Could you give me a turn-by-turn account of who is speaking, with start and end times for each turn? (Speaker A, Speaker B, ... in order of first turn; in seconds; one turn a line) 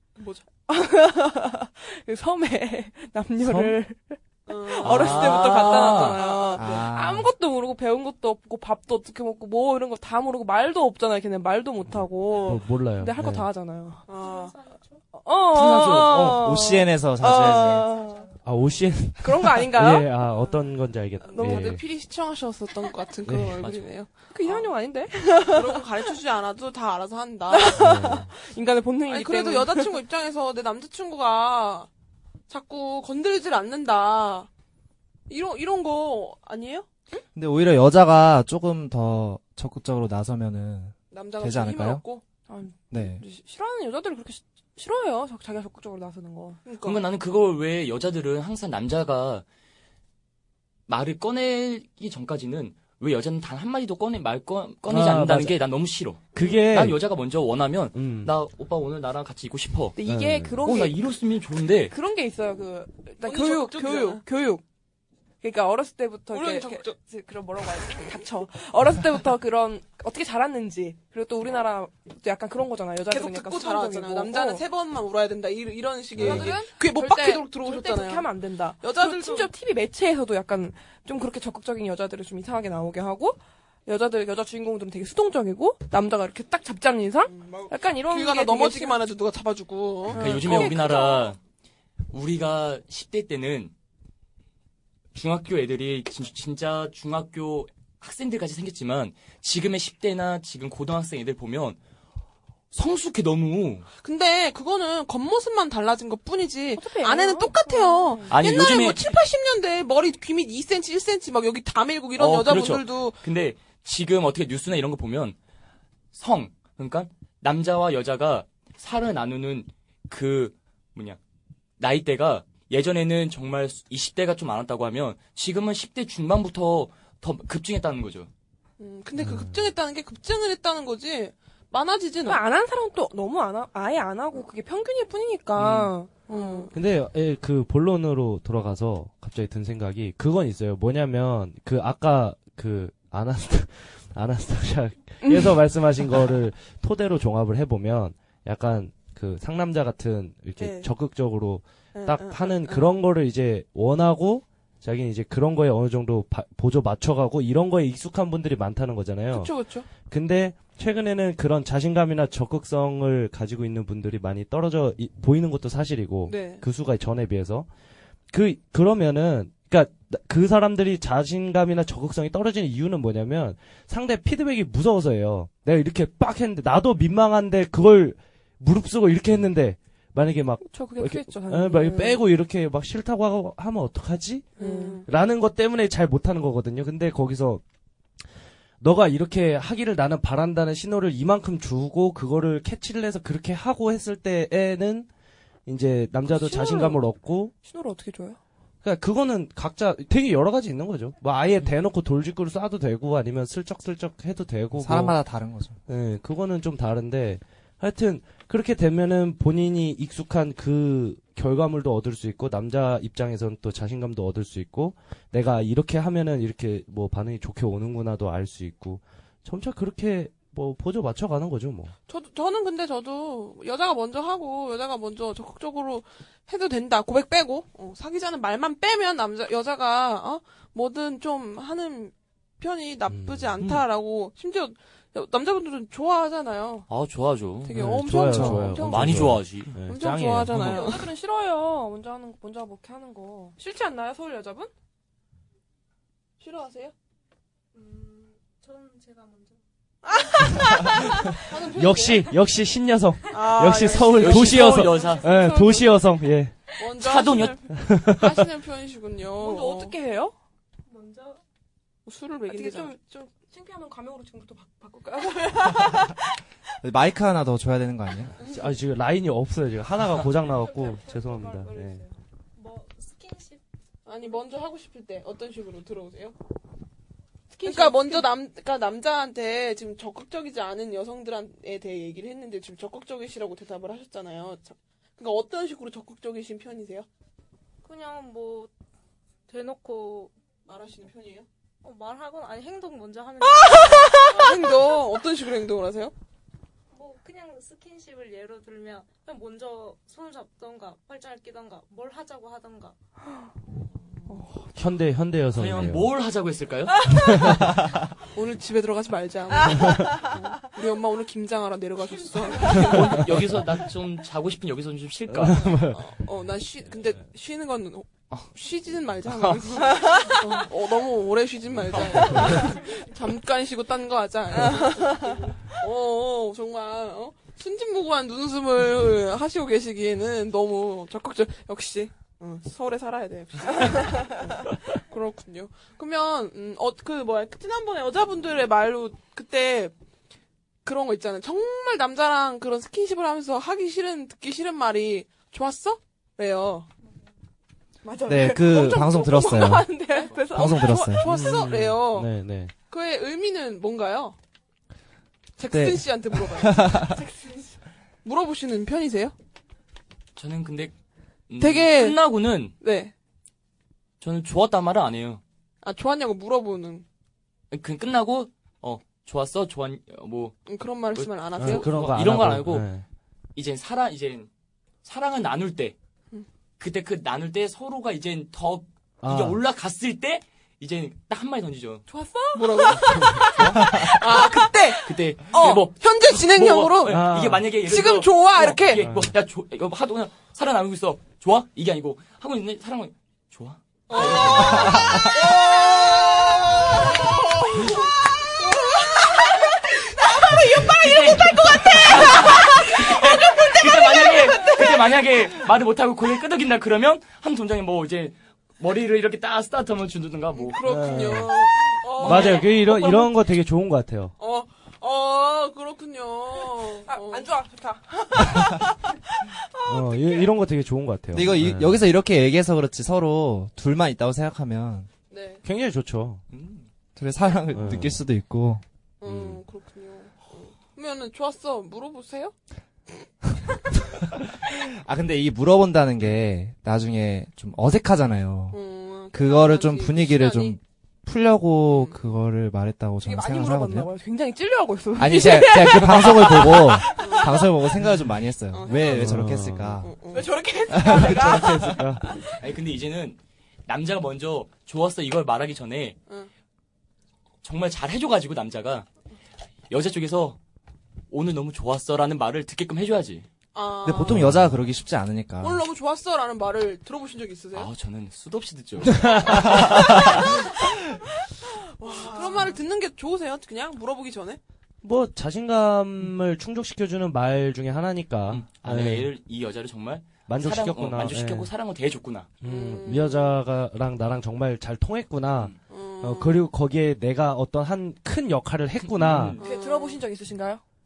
Speaker A: 0.2-0.4
Speaker B: 0.7-14.4
Speaker C: 3.4-3.8
Speaker A: 4.5-6.8
Speaker D: 4.8-6.2
Speaker E: 6.5-7.3
Speaker C: 11.9-13.5
Speaker A: 14.1-14.6
Speaker F: 14.2-15.0
Speaker B: 15.1-18.3
Speaker D: 15.5-16.4
Speaker E: 16.2-18.0
Speaker F: 17.7-18.3
Speaker C: 18.4-21.8
Speaker B: 19.2-20.4
Speaker A: 20.9-24.7
Speaker B: 21.3-21.8
Speaker C: 23.3-23.6
Speaker D: 23.6-23.9
Speaker B: 24.3-25.9
Speaker A: 25.3-27.8
Speaker B: 27.5-30.0
Speaker C: 27.8-28.3
Speaker A: 29.1-31.9
Speaker A: 32.5-34.5
Speaker A: 35.3-36.9
Speaker E: 37.3-42.0
Speaker A: 41.1-42.2
Speaker B: 42.5-46.6
Speaker E: 42.9-43.2
Speaker A: 46.6-47.0
Speaker D: 46.8-49.4
Speaker D: 50.9-60.0
Speaker C: 54.9-55.6
Speaker C: 56.3-57.0
Speaker C: 57.9-58.3
Speaker B: 60.0-61.1
Speaker C: 60.0-60.7
Speaker D: 60.6-61.9
Speaker B: 61.9-64.6
Speaker A: 63.2-64.2
Speaker B: 65.4-74.6
Speaker A: 66.3-67.0
Speaker A: 67.9-68.2
Speaker A: 73.1-79.5
Speaker B: 76.2-89.0
Speaker A: 87.3-91.1
Speaker B: 90.1-91.3
Speaker D: 90.1-91.4
Speaker D: 92.1-93.7
Speaker D: 95.1-101.8
Speaker D: 102.7-103.8
Speaker A: 104.0-113.2
Speaker B: 106.8-108.4
Speaker D: 108.3-109.1
Speaker D: 112.2-115.4
Speaker D: 116.1-121.2
Speaker D: 121.8-128.3
Speaker A: 128.8-132.4
Speaker C: 129.2-129.6
Speaker B: 132.2-136.7
Speaker D: 135.6-135.9
Speaker A: 136.3-136.7
Speaker C: 136.7-167.7
Speaker B: 145.2-145.5
Speaker A: 150.6-150.9
Speaker A: 151.9-152.9
Speaker A: 159.3-159.9
Speaker A: 166.3-166.6
Speaker C: 168.3-187.6
Speaker B: 180.6-182.2
Speaker B: 184.6-185.0
Speaker A: 184.6-185.1
Speaker C: 188.8-195.1
Speaker C: 195.7-197.5
Speaker B: 196.2-197.0
Speaker B: 197.6-198.4
Speaker C: 198.8-205.2
Speaker E: 204.8-205.8
Speaker C: 205.9-221.9
Speaker A: 222.1-236.9
Speaker C: 233.1-233.8
Speaker D: 236.9-237.8
Speaker A: 237.6-239.2
Speaker C: 237.7-240.9
Speaker E: 238.2-238.7
Speaker D: 238.7-239.7
Speaker A: 239.9-241.0
Speaker B: 240.6-244.7
Speaker A: 246.4-246.9
Speaker F: 247.7-249.6
Speaker A: 250.1-252.3
Speaker F: 250.2-250.5
Speaker B: 250.4-251.3
Speaker C: 251.7-256.5
Speaker A: 253.3-255.0
Speaker D: 254.1-255.2
Speaker F: 255.1-255.4
Speaker B: 255.2-256.1
Speaker A: 256.8-259.9
Speaker D: 257.0-257.6
Speaker C: 257.8-258.4
Speaker B: 259.4-260.3
Speaker F: 260.9-261.4
Speaker A: 262.1-262.9
Speaker B: 262.5-266.2
Speaker E: 266.8-268.4
Speaker C: 268.4-272.0
Speaker B: 270.5-272.1
Speaker F: 272.6-273.6
Speaker A: 274.1-276.3
Speaker B: 277.5-278.3
Speaker A: 277.6-287.1
Speaker F: 287.8-288.7
Speaker F: 289.5-290.3
Speaker A: 290.7-291.4
Speaker F: 291.8-294.2
Speaker B: 293.9-294.3
Speaker A: 294.1-296.1
Speaker F: 296.9-302.9
Speaker B: 304.3-304.7
Speaker C: 304.7-306.1
Speaker D: 305.5-307.1
Speaker C: 307.2-307.8
Speaker A: 308.3-313.3
Speaker D: 312.6-315.8
Speaker C: 315.3-316.0
Speaker A: 315.8-339.9
Speaker D: 319.3-319.9
Speaker B: 324.7-325.5
Speaker A: 340.8-346.9
Speaker B: 348.0-351.2
Speaker E: 348.3-351.3
Speaker A: 350.5-352.3
Speaker C: 351.2-352.7
Speaker A: 352.9-354.4
Speaker A: 355.6-357.1
Speaker E: 355.7-357.2
Speaker B: 357.0-357.8
Speaker A: 358.2-359.3
Speaker D: 360.4-360.9
Speaker D: 361.5-362.7
Speaker A: 361.6-363.1
Speaker D: 364.2-365.4
Speaker A: 365.8-367.0
Speaker D: 367.7-372.9
Speaker A: 370.6-371.9
Speaker C: 371.6-373.0
Speaker D: 373.5-374.5
Speaker D: 375.0-375.9
Speaker D: 376.8-382.1
Speaker C: 379.2-379.6
Speaker B: 382.1-385.8
Speaker A: 382.5-389.0
Speaker C: 383.2-383.5
Speaker D: 383.5-384.0
Speaker D: 385.0-395.3
Speaker C: 387.1-387.8
Speaker C: 389.0-389.3
Speaker A: 394.1-398.0
Speaker A: 400.8-402.4
Speaker D: 400.8-410.8
Speaker A: 410.5-413.3
Speaker C: 410.8-411.7
Speaker D: 412.2-412.7
Speaker C: 412.2-414.3
Speaker A: 414.4-417.4
Speaker B: 416.9-420.5
Speaker C: 419.9-422.0
Speaker E: 421.3-425.1
Speaker A: 425.3-425.6
Speaker C: 425.6-426.4
Speaker D: 426.5-426.9
Speaker E: 427.1-428.8
Speaker C: 427.7-428.2
Speaker A: 429.2-432.5
Speaker E: 434.7-438.8
Speaker A: 438.7-440.8
Speaker E: 439.3-444.1
Speaker A: 441.9-442.2
Speaker B: 443.2-448.0
Speaker E: 445.1-450.3
Speaker A: 447.1-447.6
Speaker A: 448.7-449.2
Speaker B: 448.9-449.1
Speaker C: 449.1-450.1
Speaker A: 450.0-450.6
Speaker B: 450.3-452.6
Speaker E: 450.9-452.0
Speaker C: 451.0-452.3
Speaker D: 452.6-456.2
Speaker D: 457.6-459.1
Speaker D: 459.9-460.6
Speaker D: 461.3-463.5
Speaker A: 463.7-464.4
Speaker E: 464.0-465.8
Speaker C: 464.3-464.8
Speaker A: 465.6-467.9
Speaker D: 467.7-470.7
Speaker C: 469.1-469.8
Speaker A: 472.0-474.6
Speaker B: 472.0-472.7
Speaker C: 475.0-479.3
Speaker D: 478.5-482.5
Speaker C: 480.5-481.7
Speaker C: 482.6-489.6
Speaker A: 482.6-483.6
Speaker A: 485.9-486.7
Speaker D: 489.1-489.6
Speaker A: 489.6-490.2
Speaker B: 489.6-490.8